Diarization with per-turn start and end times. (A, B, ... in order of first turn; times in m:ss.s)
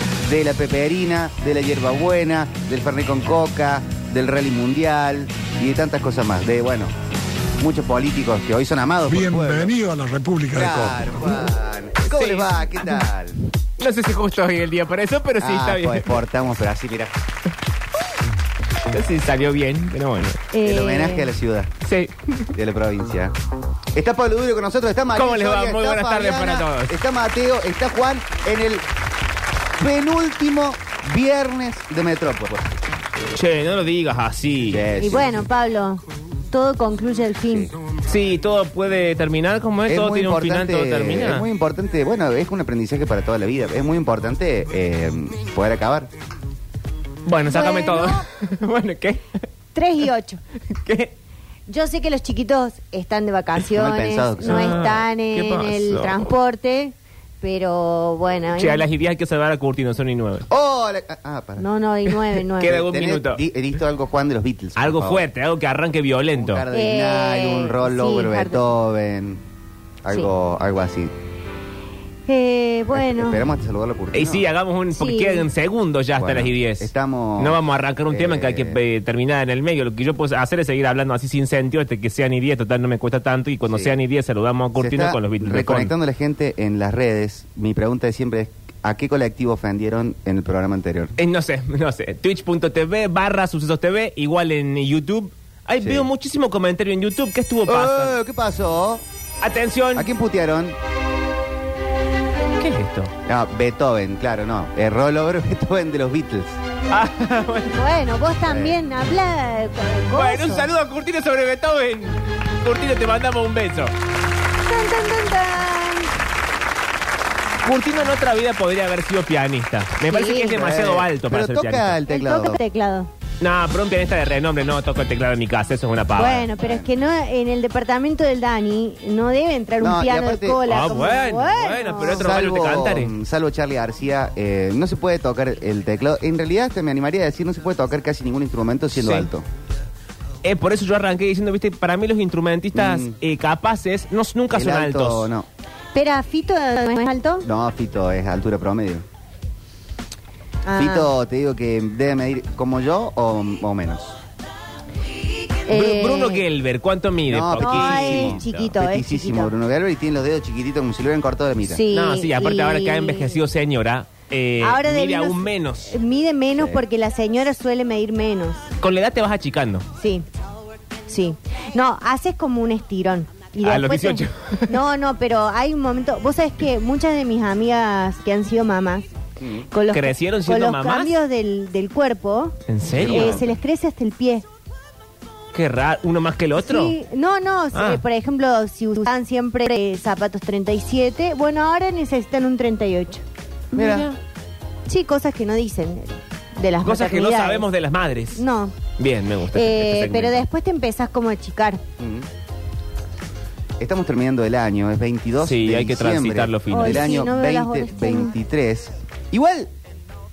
0:00.2-0:06.9 A
0:07.6-0:09.8 A
0:09.1-0:11.2 B
0:10.5-0:13.4 A
0:12.1-0:12.5 C
0:13.8-0:16.2 C
0:15.4-0:17.1 A
0:18.9-0:20.4 C
0:20.5-0:21.3 D
0:20.6-0:21.7 A
0:21.8-0:22.5 C
0:22.5-0:23.3 A
0:23.9-0:28.8 A
0:25.2-0:27.0 C
0:29.8-0:32.7 A
0:33.3-0:34.8 C
0:34.7-0:35.5 A
0:35.0-0:37.7 D
0:37.5-0:37.7 A
0:38.0-0:41.5 C
0:39.9-0:46.1 A
0:47.3-0:49.4 C
0:47.5-0:48.3 D
0:49.8-0:50.4 D
0:50.7-0:51.1 C
0:51.7-0:58.9 D
0:53.7-0:54.9 A
0:54.4-0:56.3 C
0:58.6-1:00.5 C
1:00.5-1:01.6 A
1:01.6-1:02.8 D
1:02.6-1:03.4 C
1:02.6-1:05.3 A
1:04.8-1:06.6 C
1:06.4-1:09.4 A
1:06.7-1:08.7 D
1:10.0-1:11.1 A
1:12.3-1:13.4 D
1:12.9-1:14.5 A
1:14.1-1:25.9 C
1:14.9-1:15.5 D
1:16.2-1:18.8 A
1:23.7-1:24.0 A
1:24.8-1:31.2 A
1:31.2-1:38.2 C
1:35.8-1:36.1 A
1:37.7-1:39.0 A
1:39.4-1:40.1 C
1:39.9-1:40.8 A
1:42.6-1:43.1 C
1:43.3-1:46.6 A
1:46.9-1:47.8 C
1:47.7-1:50.7 D
1:48.5-1:48.8 A
1:50.1-1:53.9 C
1:54.6-1:56.1 D
1:57.6-2:02.0 C
2:00.0-2:00.5 D
2:00.5-2:02.6 A
2:02.1-2:03.1 D
2:03.4-2:06.5 C
2:06.2-2:12.2 D
2:06.6-2:06.9 A
2:09.8-2:10.6 A
2:10.7-2:13.1 C
2:12.0-2:19.5 A
2:19.0-2:19.3 C
2:20.4-2:25.3 C
2:22.7-2:23.2 A
2:24.5-2:25.5 A
2:26.0-2:27.5 D
2:27.4-2:29.0 A
2:30.7-2:31.1 D
2:30.8-2:34.2 A
2:35.7-2:36.4 D
2:35.7-2:38.5 C
2:37.3-2:41.8 A
2:37.6-2:39.5 D
2:41.7-2:43.4 D
2:41.9-2:45.9 C
2:44.6-2:48.6 D
2:48.8-2:49.9 C
2:50.0-2:50.3 D
2:51.1-2:59.1 D
2:53.6-2:54.8 C
2:59.4-2:59.7 A
2:59.7-3:02.6 D
2:59.9-3:01.1 C
3:02.7-3:03.4 C
3:03.0-3:03.4 A
3:03.1-3:04.4 D
3:05.5-3:07.0 C
3:06.6-3:13.2 D
3:07.7-3:08.0 C
3:13.7-3:14.1 A
3:13.7-3:14.2 C
3:14.9-3:17.7 D
3:16.8-3:18.4 C
3:18.4-3:18.8 D
3:19.0-3:20.4 C
3:19.5-3:21.8 D
3:22.0-3:22.3 A
3:23.8-3:29.7 A
3:25.4-3:27.2 C
3:26.7-3:28.4 D